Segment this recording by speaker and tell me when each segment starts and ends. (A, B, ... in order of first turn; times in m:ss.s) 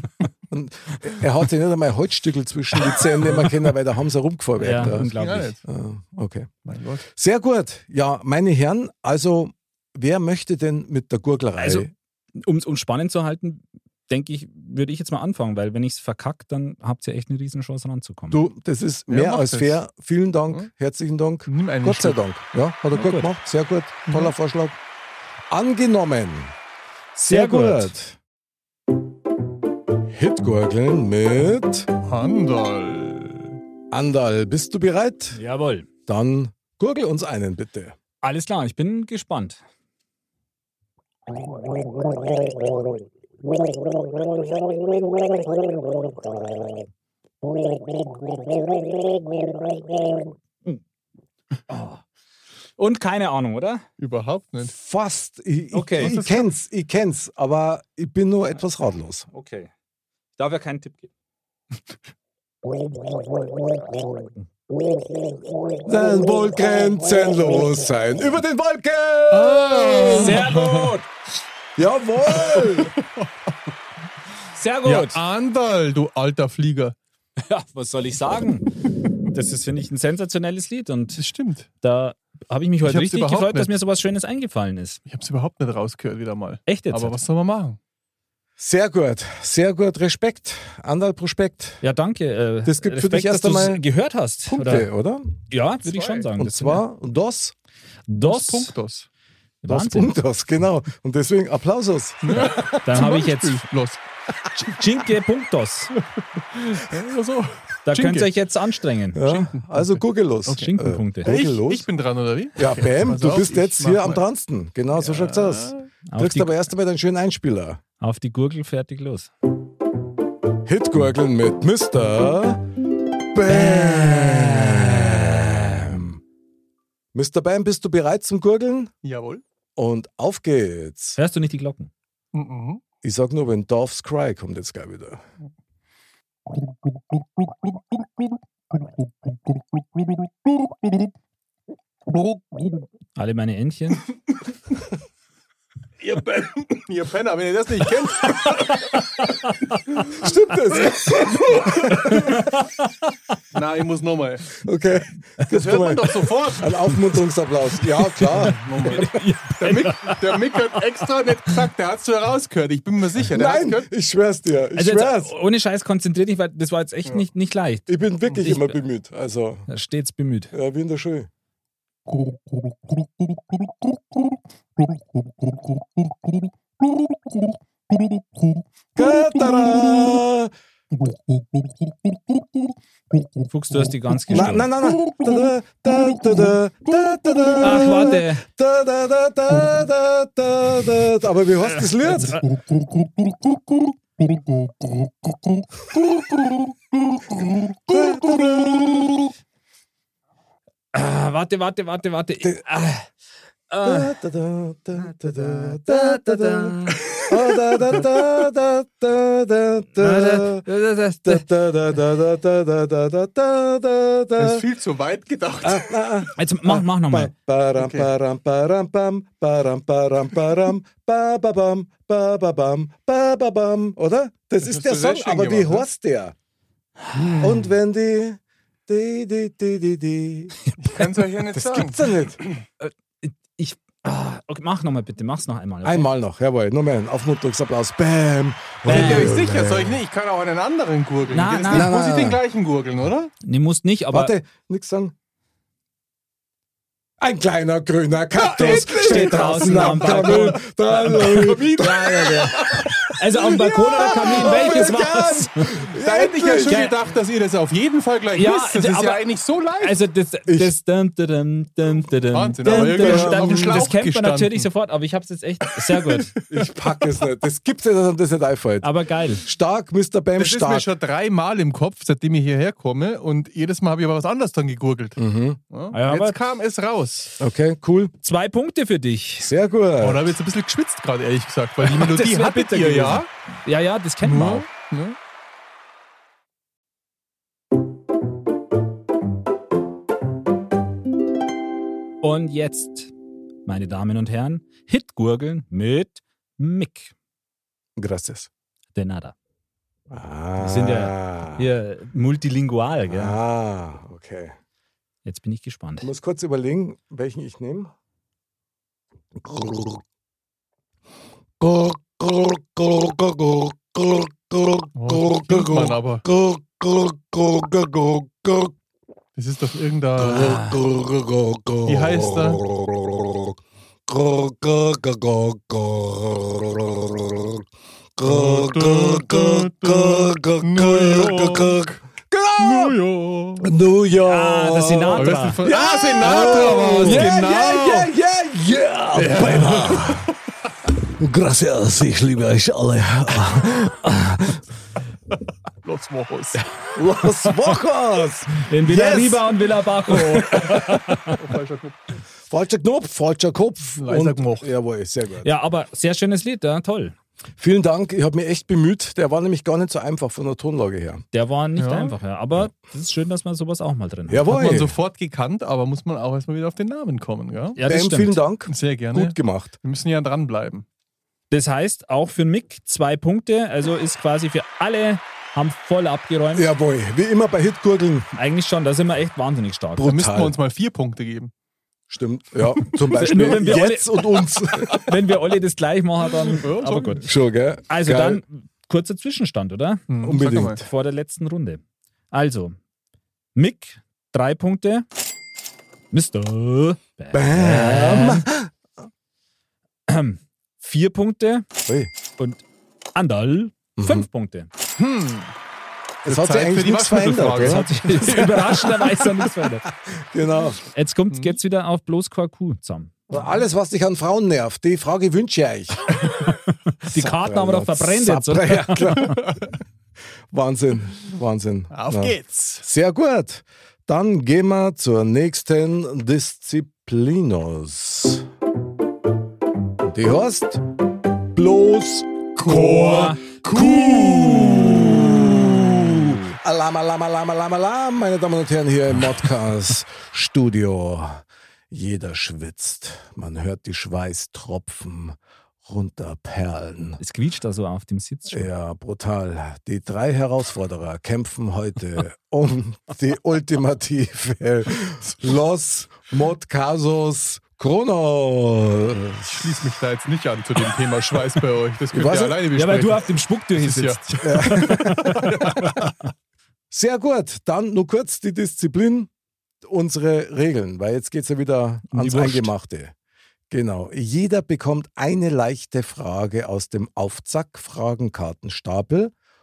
0:00.5-0:05.1 A
0:04.6-0:05.6 B
0:04.7-0:05.6 C
0:05.6-0:06.5 A
0:06.6-0:07.1 C
0:07.1-0:11.9 A
0:11.6-0:18.4 B
0:18.3-0:24.8 A
0:19.1-0:19.8 C
0:21.5-0:22.2 C
0:22.9-0:23.3 B
0:24.1-0:24.3 C
0:25.5-0:26.6 A
0:27.2-0:28.2 A
0:27.3-0:27.9 B
0:30.1-0:31.9 A
0:32.0-0:33.6 C
0:33.9-0:35.4 A
0:35.3-0:35.9 B
0:36.1-0:38.0 A
0:38.2-0:39.6 B
0:51.7-0:52.0 B
0:52.8-0:53.8 B
0:54.0-0:54.8 C
0:54.6-0:59.3 A
0:55.7-0:56.2 B
0:56.0-0:56.5 C
0:59.3-0:59.7 B
1:00.4-1:01.1 B
1:05.8-1:10.8 A
1:09.3-1:10.9 C
1:10.2-1:11.0 B
1:11.8-1:12.9 A
1:12.3-1:13.3 C
1:14.5-1:15.2 B
1:14.8-1:17.0 C
1:17.4-1:18.7 B
1:19.3-1:21.2 B
1:21.2-1:21.7 C
1:21.8-1:25.0 B
1:22.8-1:23.7 C
1:25.1-1:27.8 C
1:26.7-1:27.2 B
1:28.6-1:31.8 A
1:31.8-1:34.9 B
1:32.6-1:33.8 A
1:34.5-1:35.4 A
1:35.5-1:36.9 B
1:35.8-1:36.3 C
1:36.4-1:37.6 A
1:38.1-1:38.7 B
1:38.2-1:39.1 C
1:39.6-1:40.2 B
1:39.7-1:42.7 A
1:42.2-1:44.0 C
1:42.8-1:43.7 B
1:44.6-1:45.9 B
1:46.4-1:48.3 C
1:47.9-1:49.4 B
1:49.1-1:51.9 A
1:49.3-1:50.7 C
1:50.5-1:51.3 B
1:51.2-1:54.2 C
1:52.6-1:57.8 A
1:55.0-1:55.9 C
1:56.1-1:56.6 B
1:58.0-1:59.3 B
2:00.6-2:02.6 A
2:03.3-2:06.2 A
2:03.5-2:05.9 B
2:07.1-2:08.9 A
2:09.0-2:09.4 C
2:09.8-2:11.2 A
2:11.2-2:11.9 B
2:12.3-2:12.8 C
2:13.0-2:15.2 A
2:17.5-2:17.8 C
2:20.0-2:21.0 C
2:22.1-2:22.8 C
2:23.2-2:24.1 B
2:26.0-2:29.0 C
2:30.1-2:32.4 A
2:31.4-2:32.4 C
2:32.0-2:32.9 B
2:33.5-2:34.6 C
2:34.6-2:39.2 A
2:35.5-2:36.8 C
2:38.3-2:43.9 C
2:38.8-2:40.8 B
2:43.3-2:45.3 A
2:44.8-2:48.8 B
2:47.9-2:49.7 A
2:49.7-2:50.5 B
2:50.5-2:51.3 A
2:52.1-2:53.7 C
2:55.3-2:56.3 C
2:56.9-2:57.2 C
2:58.0-2:58.6 C
2:59.0-3:00.5 A
2:59.5-3:00.0 C
3:01.0-3:01.7 C
3:03.5-3:04.7 B
3:04.3-3:12.4 A
3:04.3-3:05.4 C
3:07.6-3:08.4 B
3:11.6-3:12.5 B
3:15.9-3:16.5 A
3:17.3-3:19.3 A
3:20.9-3:23.1 B
3:23.7-3:24.2 B
3:23.8-3:30.7 A
3:25.0-3:27.1 B
3:30.0-3:31.5 B
3:31.2-3:34.6 A
3:34.4-3:36.0 C
3:35.6-3:46.4 A
3:36.4-3:37.3 B
3:37.8-3:38.1 C
3:44.6-3:45.9 C
3:47.1-3:47.4 B
3:47.2-3:47.6 C
3:47.4-3:50.6 A
3:50.8-3:52.1 C
3:51.5-3:52.4 A
3:52.8-3:56.1 B
3:55.8-4:00.0 A
3:58.8-4:03.3 C
3:58.9-3:59.4 B
4:01.3-4:01.9 B
4:01.7-4:02.4 A
4:03.4-4:04.3 B
4:04.1-4:05.1 A
4:07.2-4:16.9 A
4:08.4-4:13.0 C
4:08.6-4:15.7 B
4:14.4-4:14.9 C
4:16.0-4:20.0 C
4:16.7-4:17.0 B
4:18.4-4:19.2 B
4:19.8-4:26.3 B
4:20.5-4:20.8 A
4:22.3-4:24.7 C
4:22.6-4:23.8 A
4:25.9-4:26.6 C
4:26.5-4:30.9 A
4:28.8-4:29.4 B
4:30.4-4:37.3 C
4:35.2-4:35.6 A
4:35.9-4:36.4 B
4:37.4-4:38.1 A
4:38.2-4:39.5 B
4:39.4-4:40.4 A
4:40.0-4:43.3 C
4:41.8-4:44.7 B
4:44.2-4:45.2 C
4:52.2-4:53.1 B
4:53.7-4:57.1 B
4:58.0-4:58.5 A
4:58.9-4:59.4 B
5:00.1-5:01.7 A
5:00.6-5:03.4 B
5:03.1-5:04.6 A
5:05.2-5:06.1 B
5:06.0-5:07.9 A
5:09.4-5:10.0 A
5:11.6-5:18.8 A
5:15.0-5:16.2 C
5:19.4-5:20.6 C
5:20.2-5:33.0 A
5:20.4-5:20.8 B
5:21.9-5:22.6 C
5:28.2-5:32.0 C
5:32.6-5:33.7 C
5:33.6-5:40.3 A
5:34.2-5:35.6 B
5:35.1-5:38.1 C
5:36.9-5:37.3 B
5:39.1-5:40.3 C
5:41.0-5:44.6 A
5:45.8-5:46.6 C
5:46.9-5:49.4 A
5:48.6-5:51.4 B
5:50.1-5:50.8 A
5:51.3-5:52.2 C
5:52.5-5:55.5 A
5:54.0-5:54.7 C
5:55.4-5:57.2 B
5:57.6-6:01.2 A
6:01.3-6:04.5 B
6:01.8-6:02.2 C
6:04.3-6:05.0 A
6:04.5-6:07.8 C
6:07.8-6:08.4 B
6:07.8-6:09.8 A
6:08.7-6:10.9 C
6:11.5-6:16.7 B
6:16.5-6:18.3 A
6:18.4-6:20.1 B
6:20.0-6:20.6 A
6:20.0-6:21.5 C
6:22.1-6:25.1 A
6:22.8-6:23.6 C
6:23.2-6:27.3 B
6:26.5-6:27.2 C
6:27.2-6:28.4 A
6:27.9-6:30.1 B
6:30.1-6:30.8 C
6:30.2-6:30.9 A
6:30.8-6:31.8 B
6:32.3-6:32.8 B
6:33.6-6:35.1 B
6:36.1-6:38.5 B
6:37.3-6:38.7 A
6:40.1-6:41.7 B
6:42.4-6:42.6 B
6:43.2-6:44.7 B
6:44.0-6:44.3 A
6:45.0-6:45.5 C
6:46.2-6:48.5 C
6:46.2-6:48.9 A
6:47.6-6:49.9 B
6:50.1-6:50.8 A
6:50.9-6:53.2 B
6:53.3-6:56.2 A
6:57.0-6:59.4 B
6:57.0-6:59.6 A
7:00.5-7:08.5 A
7:01.9-7:02.9 C
7:10.0-7:10.8 A
7:11.5-7:27.2 A
7:12.6-7:15.0 C
7:12.6-7:16.5 B
7:27.2-7:28.7 B
7:28.5-7:39.9 A
7:39.4-7:46.1 C
7:42.1-7:42.6 A
7:42.8-7:46.0 B
7:44.4-7:45.5 A
7:46.9-7:49.3 A
7:49.8-7:53.1 A
7:52.1-7:52.7 B
7:53.7-7:59.3 A